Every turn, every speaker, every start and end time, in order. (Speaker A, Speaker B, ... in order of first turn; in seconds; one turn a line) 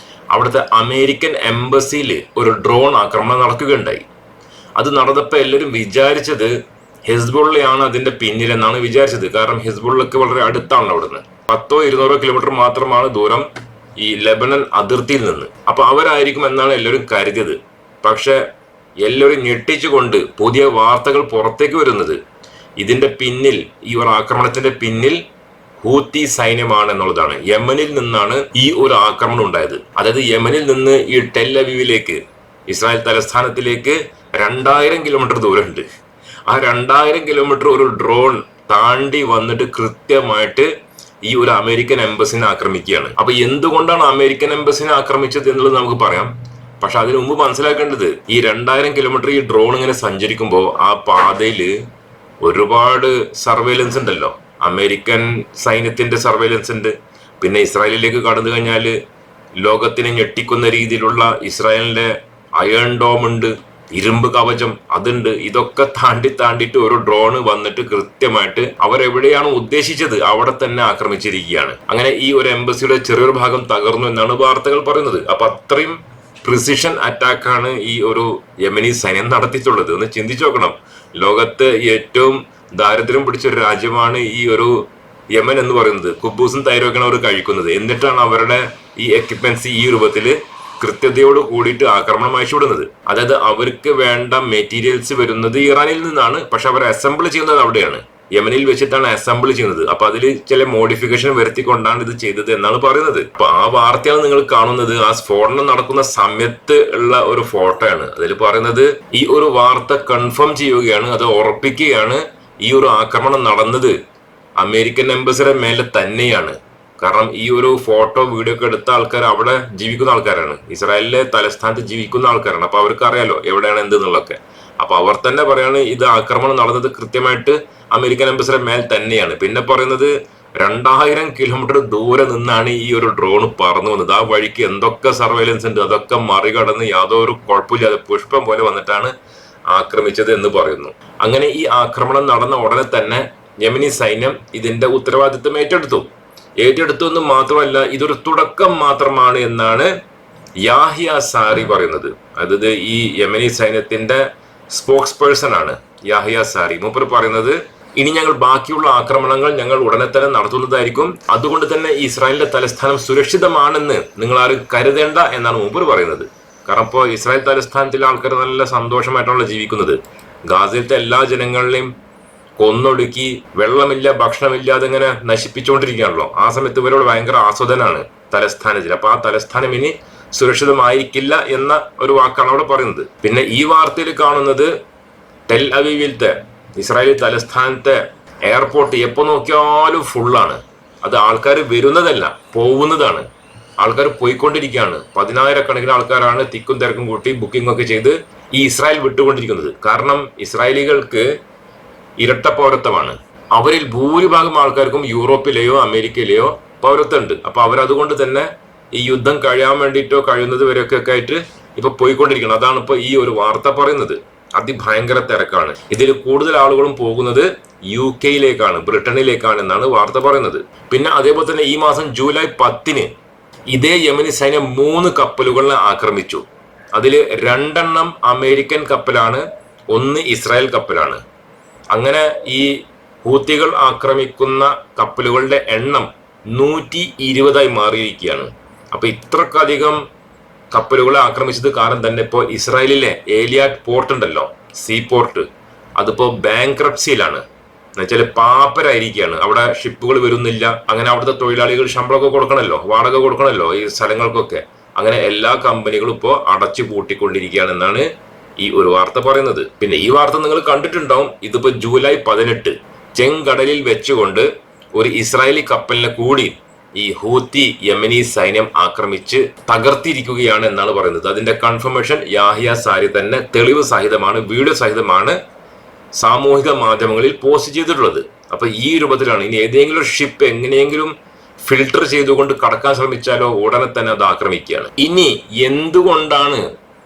Speaker A: 0.3-4.0
Speaker A: 4.8-6.5
Speaker A: 7.1-13.4
Speaker A: 14.0-18.4
Speaker A: 19.0-22.2
Speaker A: 22.8-25.2
Speaker A: 25.8-35.9
Speaker A: 36.5-40.7
Speaker A: 41.3-51.7
Speaker A: 52.4-58.9
Speaker A: 59.6-113.9
Speaker A: 114.6-139.1
Speaker A: 139.7-146.1
Speaker A: 146.6-149.9
Speaker A: 150.6-171.9
Speaker A: 172.6-184.7
Speaker A: 185.5-193.2
Speaker A: 193.8-201.2
Speaker A: 202.2-223.1
Speaker A: 223.7-226.4
Speaker A: 226.9-231.2
Speaker A: 231.9-240.0
Speaker A: 240.7-247.4
Speaker A: 248.0-258.0
Speaker A: 258.6-275.4
Speaker A: 276.2-281.1
Speaker A: 281.7-286.6